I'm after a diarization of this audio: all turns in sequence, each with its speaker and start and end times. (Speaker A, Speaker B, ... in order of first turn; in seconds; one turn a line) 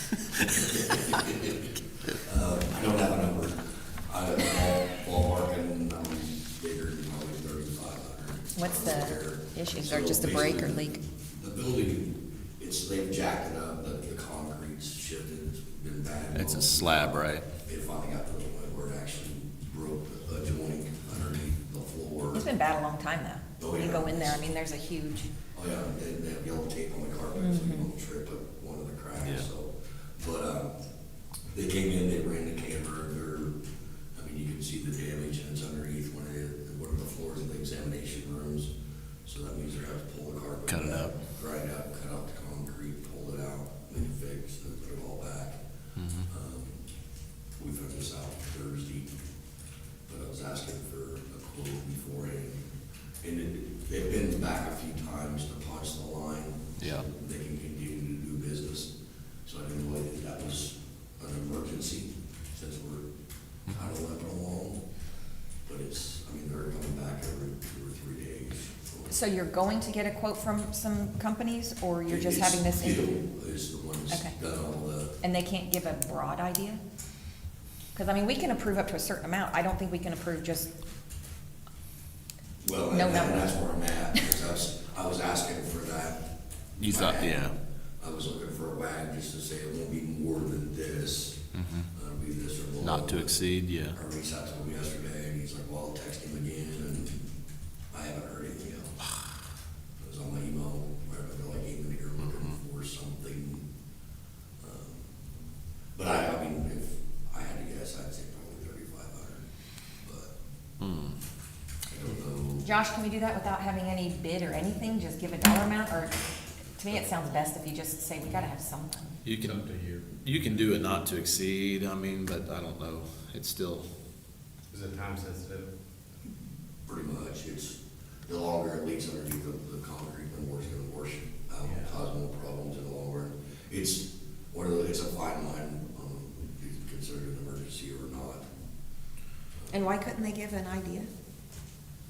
Speaker A: 0.4-22.5
Speaker B: 8.6-11.0
Speaker C: 16.3-17.4
Speaker B: 22.3-25.3
Speaker A: 23.6-24.4
Speaker A: 25.5-30.8
Speaker B: 27.4-27.8
Speaker C: 29.2-29.5
Speaker A: 31.5-33.5
Speaker A: 34.1-38.7
Speaker A: 39.3-45.6
Speaker C: 40.7-41.1
Speaker C: 46.0-46.3
Speaker A: 46.3-46.8
Speaker A: 47.6-49.1
Speaker A: 50.1-52.6
Speaker A: 53.2-58.9
Speaker C: 56.8-57.0
Speaker A: 59.5-63.0
Speaker A: 63.7-64.8
Speaker A: 65.7-69.2
Speaker B: 69.1-73.2
Speaker A: 72.1-75.2
Speaker B: 75.2-76.8
Speaker B: 77.9-80.7
Speaker A: 82.6-87.5
Speaker B: 82.9-83.5
Speaker C: 86.8-87.5
Speaker A: 88.0-93.4
Speaker C: 91.5-91.9
Speaker C: 92.8-94.0
Speaker A: 93.9-97.2
Speaker A: 97.9-99.0
Speaker A: 100.0-103.7
Speaker A: 104.6-105.0
Speaker A: 106.0-109.5
Speaker A: 110.0-110.3
Speaker C: 110.8-111.2
Speaker A: 111.9-112.7
Speaker B: 112.6-116.2
Speaker B: 116.8-119.2
Speaker C: 119.2-123.9
Speaker D: 119.4-120.1
Speaker D: 124.7-125.7
Speaker A: 126.9-138.5
Speaker D: 131.6-132.0
Speaker B: 139.7-141.1